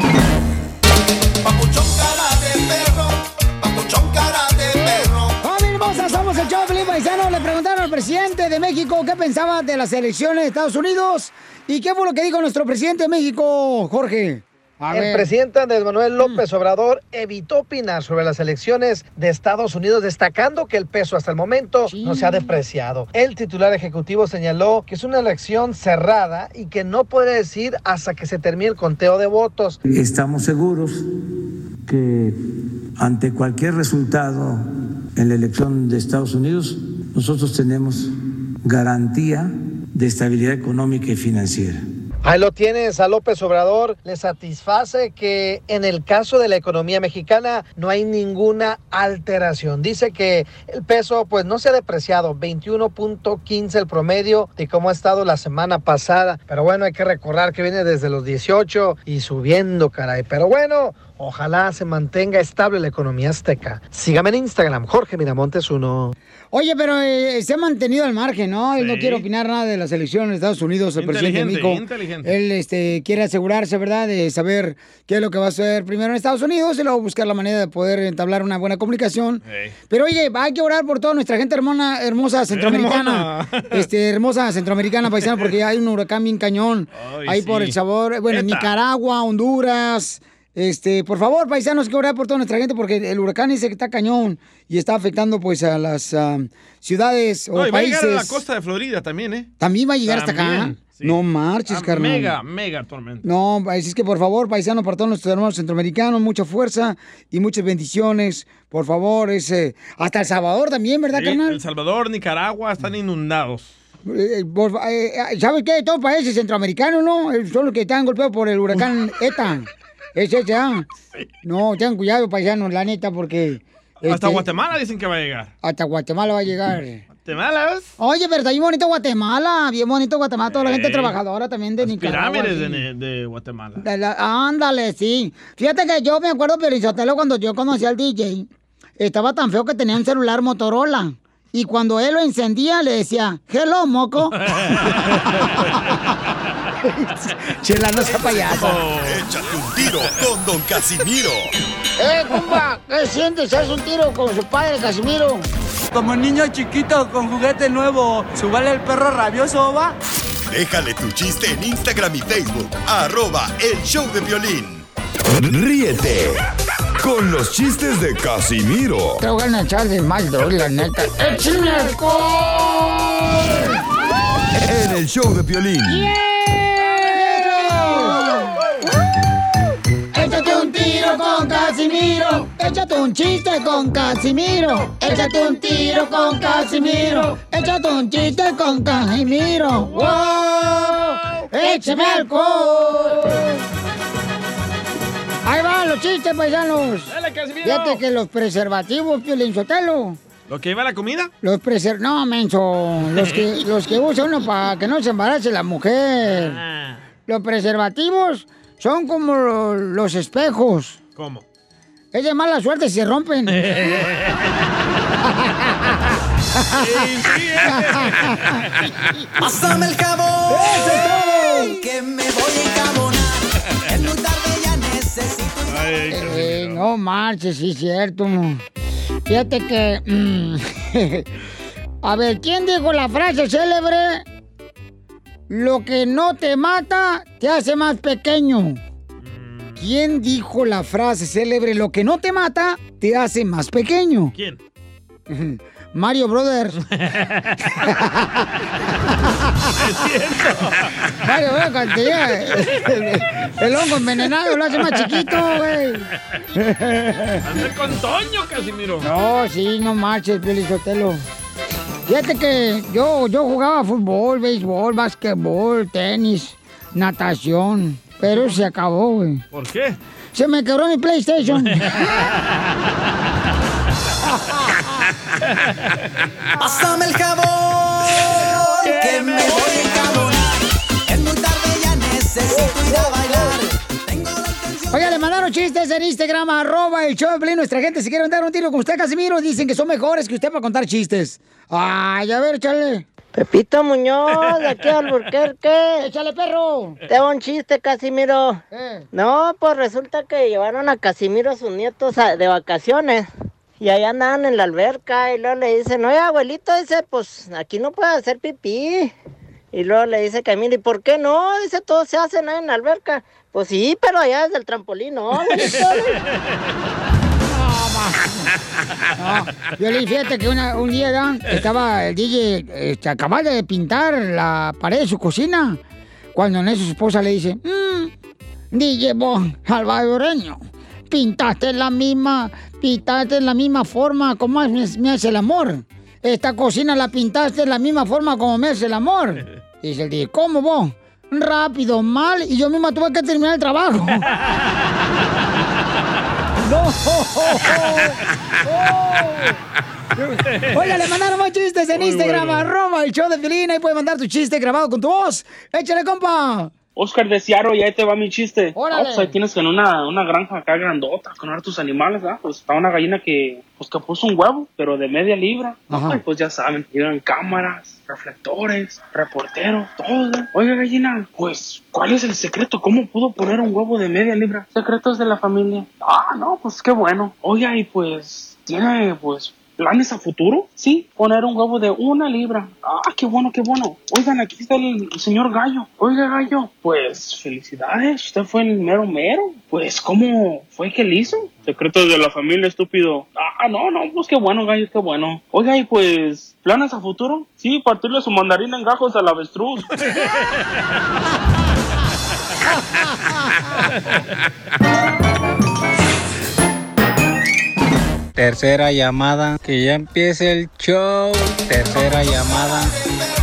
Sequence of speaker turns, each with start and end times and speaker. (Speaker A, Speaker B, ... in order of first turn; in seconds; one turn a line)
Speaker A: 1.4-5.4
Speaker B: 4.7-15.3
Speaker A: 14.9-29.8
Speaker B: 21.9-22.6
Speaker C: 29.9-31.1
Speaker C: 31.9-32.4
Speaker C: 33.0-34.6
Speaker C: 35.2-38.1
Speaker C: 38.6-41.8
Speaker A: 42.2-66.1
Speaker B: 66.5-98.4
Speaker D: 68.8-69.2
Speaker D: 71.0-72.3
Speaker D: 79.5-79.7
Speaker D: 82.5-83.8
Speaker D: 87.0-87.8
Speaker D: 88.3-88.7
Speaker D: 97.5-99.5
Speaker B: 99.6-102.3
Speaker D: 100.1-101.2
Speaker D: 101.7-103.3
Speaker B: 103.2-111.6
Speaker D: 111.1-113.7
Speaker B: 114.0-120.9
Speaker B: 121.4-124.4
Speaker D: 124.0-125.5
Speaker B: 125.6-127.0
Speaker D: 127.2-127.9
Speaker B: 128.0-132.8
Speaker D: 130.5-131.2
Speaker D: 131.8-133.8
Speaker B: 133.8-144.4
Speaker D: 144.4-145.9
Speaker B: 144.9-145.4
Speaker B: 146.8-148.8
Speaker D: 148.2-149.3
Speaker E: 149.0-151.5
Speaker B: 152.0-155.5
Speaker F: 155.9-159.9
Speaker E: 160.5-166.4
Speaker E: 167.0-169.2
Speaker B: 169.2-173.8
Speaker E: 174.6-176.1
Speaker B: 175.8-178.6
Speaker B: 180.1-193.6
Speaker D: 189.8-191.5
Speaker B: 195.4-200.2
Speaker D: 197.1-198.0
Speaker D: 200.5-201.3
Speaker B: 201.4-206.6
Speaker D: 203.1-203.4
Speaker D: 206.2-207.0
Speaker B: 207.3-211.0
Speaker D: 211.2-211.4
Speaker B: 212.1-213.6
Speaker D: 213.5-214.5
Speaker B: 215.2-216.0
Speaker B: 216.6-217.1
Speaker D: 216.8-218.9
Speaker B: 217.6-218.6
Speaker G: 219.4-220.9
Speaker B: 220.5-221.8
Speaker G: 221.7-225.9
Speaker D: 225.7-226.8
Speaker B: 226.1-228.6
Speaker B: 229.3-231.3
Speaker B: 232.0-234.2
Speaker B: 235.5-238.8
Speaker D: 239.2-239.8
Speaker B: 239.8-244.3
Speaker B: 245.3-246.8
Speaker D: 246.9-247.9
Speaker B: 247.8-248.4
Speaker B: 249.3-249.7
Speaker D: 249.7-251.1
Speaker B: 251.2-257.4
Speaker D: 254.8-255.4
Speaker D: 257.4-259.1
Speaker B: 259.0-261.2
Speaker B: 262.1-269.4
Speaker D: 269.5-270.0
Speaker B: 270.3-272.2
Speaker D: 271.4-272.7
Speaker B: 274.5-274.8
Speaker D: 275.6-275.9
Speaker G: 276.6-285.2
Speaker D: 278.8-280.4
Speaker B: 284.9-293.1
Speaker H: 293.3-295.9
Speaker B: 296.0-297.0
Speaker H: 297.1-298.6
Speaker B: 298.7-299.1
Speaker H: 299.1-303.3
Speaker H: 303.8-309.1
Speaker H: 309.7-315.9
Speaker B: 315.5-316.0
Speaker D: 315.6-315.9
Speaker B: 317.5-318.5
Speaker B: 319.1-325.8
Speaker B: 326.3-328.1
Speaker B: 328.7-344.3
Speaker B: 346.6-349.6
Speaker B: 350.1-356.7
Speaker D: 350.5-351.0
Speaker D: 351.9-352.7
Speaker I: 356.9-399.9
Speaker B: 358.7-359.4
Speaker B: 365.9-366.2
Speaker D: 400.1-400.4
Speaker J: 408.4-412.9